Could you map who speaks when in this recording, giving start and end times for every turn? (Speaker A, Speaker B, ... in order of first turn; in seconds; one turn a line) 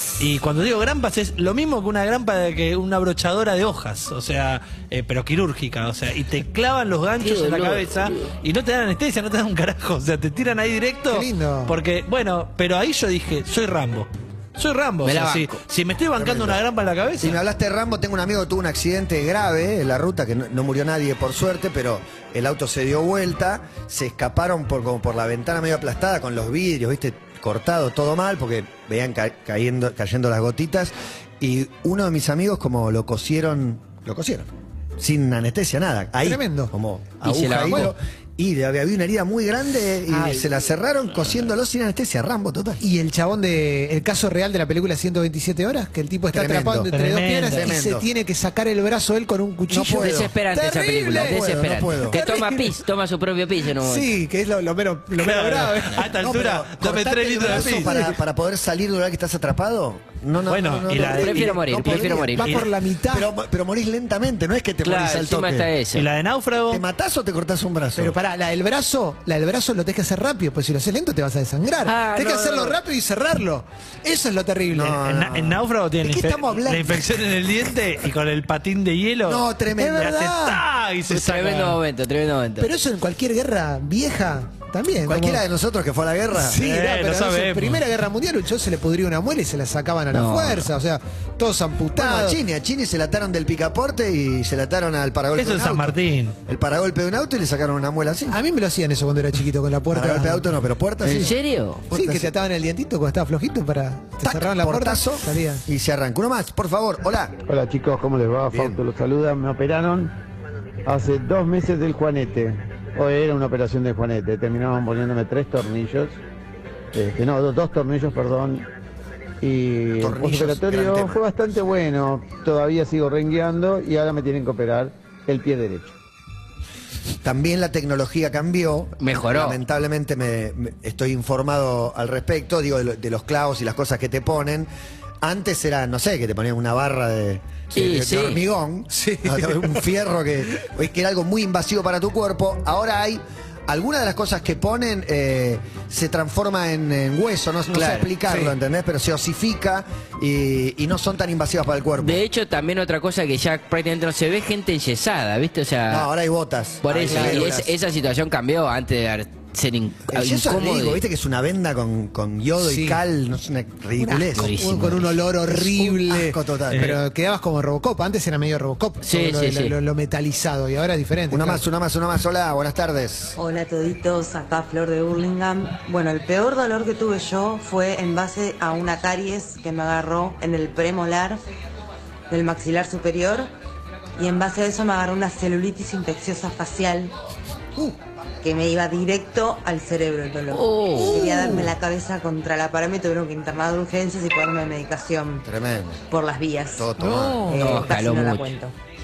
Speaker A: 0.2-17.4
Speaker B: 7.2-8.3
Speaker C: 11.1-11.8
Speaker B: 15.0-15.6
Speaker D: 16.1-16.6
Speaker D: 17.2-42.8
Speaker C: 36.2-36.7
Speaker B: 37.2-37.9
Speaker C: 37.6-37.9
Speaker B: 40.1-40.4
Speaker C: 42.8-52.8
Speaker D: 46.3-46.9
Speaker A: 46.9-47.7
Speaker D: 47.5-48.1
Speaker D: 49.7-52.2
Speaker B: 50.0-54.1
Speaker C: 53.8-56.1
Speaker A: 55.1-57.9
Speaker D: 56.1-65.7
Speaker C: 57.5-58.2
Speaker A: 60.5-61.8
Speaker B: 61.1-62.5
Speaker C: 61.6-63.3
Speaker B: 64.8-66.0
Speaker A: 65.9-66.8
Speaker D: 66.7-68.2
Speaker C: 68.0-75.0
Speaker B: 71.8-72.8
Speaker D: 74.7-77.4
Speaker A: 75.0-81.8
Speaker D: 79.2-80.2
Speaker C: 79.8-80.6
Speaker B: 81.1-82.7
Speaker C: 82.6-85.4
Speaker D: 85.0-86.6
Speaker C: 86.3-92.4
Speaker A: 86.6-87.8
Speaker B: 90.1-90.7
Speaker D: 91.9-98.4
Speaker A: 95.3-96.3
Speaker C: 98.3-100.5
Speaker D: 99.9-101.3
Speaker B: 101.0-101.8
Speaker D: 101.9-102.3
Speaker C: 101.9-105.6
Speaker D: 104.2-107.3
Speaker E: 107.5-110.1
Speaker D: 108.5-108.8
Speaker E: 110.8-116.2
Speaker E: 116.9-118.7
Speaker E: 119.4-125.9
Speaker D: 120.0-121.2
Speaker D: 127.2-134.7
Speaker B: 129.0-129.6
Speaker D: 135.2-152.2
Speaker B: 137.7-138.4
Speaker C: 138.9-139.8
Speaker B: 147.7-148.1
Speaker C: 148.2-148.5
Speaker B: 152.0-156.1
Speaker D: 155.9-157.7
Speaker B: 156.8-161.0
Speaker C: 157.1-157.4
Speaker D: 160.1-164.6
Speaker C: 162.6-163.0
Speaker C: 164.0-171.6
Speaker B: 164.3-165.1
Speaker D: 165.4-167.0
Speaker A: 166.7-167.0
Speaker B: 169.0-169.8
Speaker D: 171.3-173.4
Speaker F: 173.4-181.4
Speaker F: 182.3-183.5
Speaker F: 184.2-187.1
Speaker F: 188.4-195.5
Speaker B: 190.5-191.7
Speaker D: 195.4-196.0
Speaker F: 196.1-196.9
Speaker D: 196.8-197.6
Speaker C: 197.0-197.7
Speaker F: 197.5-198.7
Speaker B: 197.5-198.6